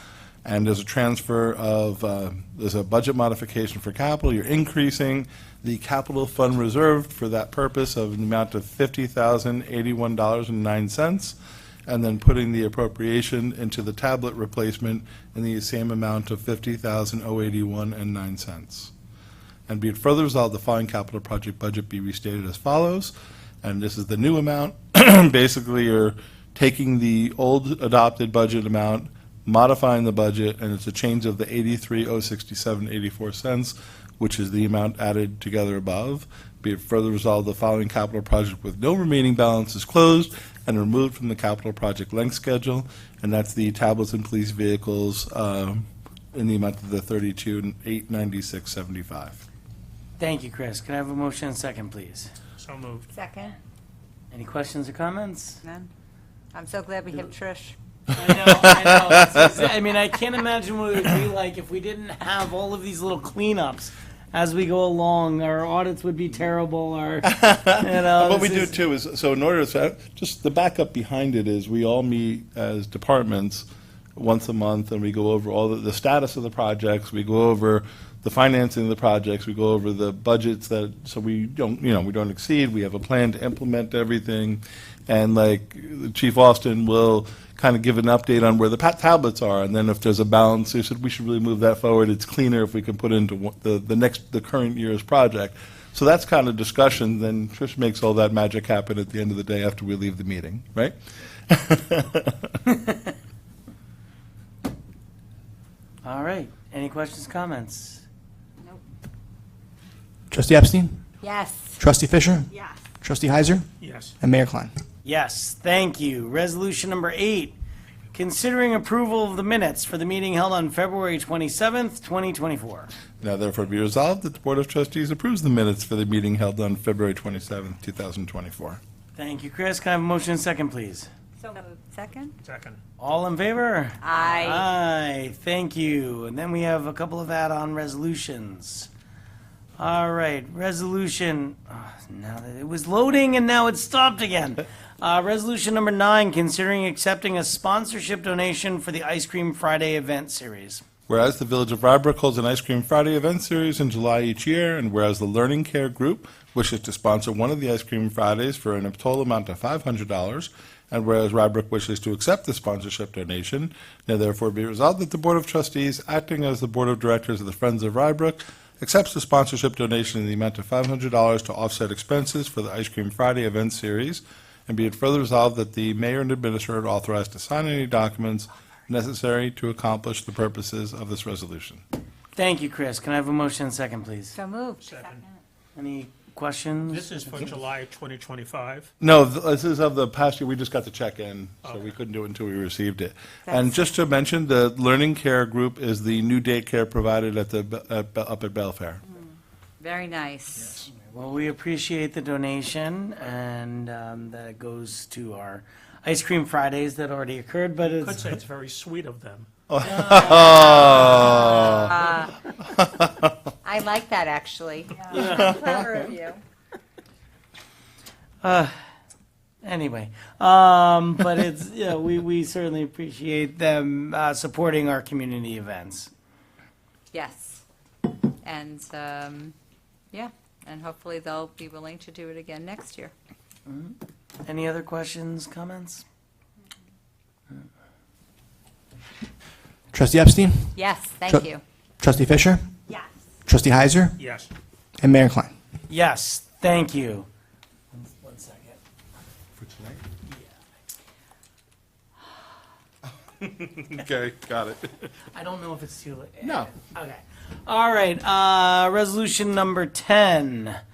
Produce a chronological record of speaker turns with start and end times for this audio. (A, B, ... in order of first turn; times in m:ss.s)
0:00.4-0:11.4 A
0:11.9-0:18.9 A
0:19.7-0:23.1 A
0:23.6-0:49.4 A
0:50.2-0:52.3 B
0:52.6-0:53.1 C
0:53.1-0:53.5 D
0:54.3-0:55.6 B
0:55.6-0:55.9 D
0:56.5-0:57.7 D
0:58.1-1:08.7 B
0:58.3-0:59.3 A
1:07.3-1:13.6 A
1:14.2-1:40.9 A
1:41.5-1:42.6 A
1:46.0-1:48.0 B
1:50.3-1:51.0 E
1:51.2-1:51.8 D
1:51.8-1:53.7 E
1:53.8-1:54.2 C
1:54.2-1:54.7 E
1:55.0-1:57.5 B
1:58.1-2:02.9 B
2:03.2-2:08.8 A
2:09.2-2:11.1 B
2:11.4-2:12.3 D
2:12.4-2:12.8 C
2:13.0-2:18.9 B
2:14.0-2:14.6 D
2:19.8-2:30.8 B
2:31.1-3:01.8 A
3:02.4-3:04.4 B
3:04.3-3:05.2 D
3:04.8-3:05.2 C
3:05.8-3:07.5 B
3:06.9-3:08.9 C
3:09.0-3:19.0 A
3:13.5-3:13.8 D
3:19.8-3:20.8 D
3:20.9-3:28.2 B
3:27.9-3:29.5 C
3:29.7-3:31.9 A
3:29.8-3:31.8 B
3:31.4-3:32.3 D
3:32.8-3:33.3 A
3:33.6-3:36.4 D
3:35.2-3:35.8 A
3:38.4-3:38.7 B
3:39.6-3:46.1 B
3:47.1-3:47.6 D
3:48.4-3:49.5 D
3:50.1-3:53.1 D
3:53.7-3:56.0 B
3:59.9-4:01.4 E
4:00.7-4:01.6 D
4:02.0-4:02.6 E
4:03.4-4:04.2 E
4:04.2-4:04.5 C
4:05.0-4:05.5 E
4:05.9-4:07.3 B
4:07.9-4:08.8 B
4:09.6-4:10.0 A
4:13.4-4:14.9 A
4:15.3-4:20.8 B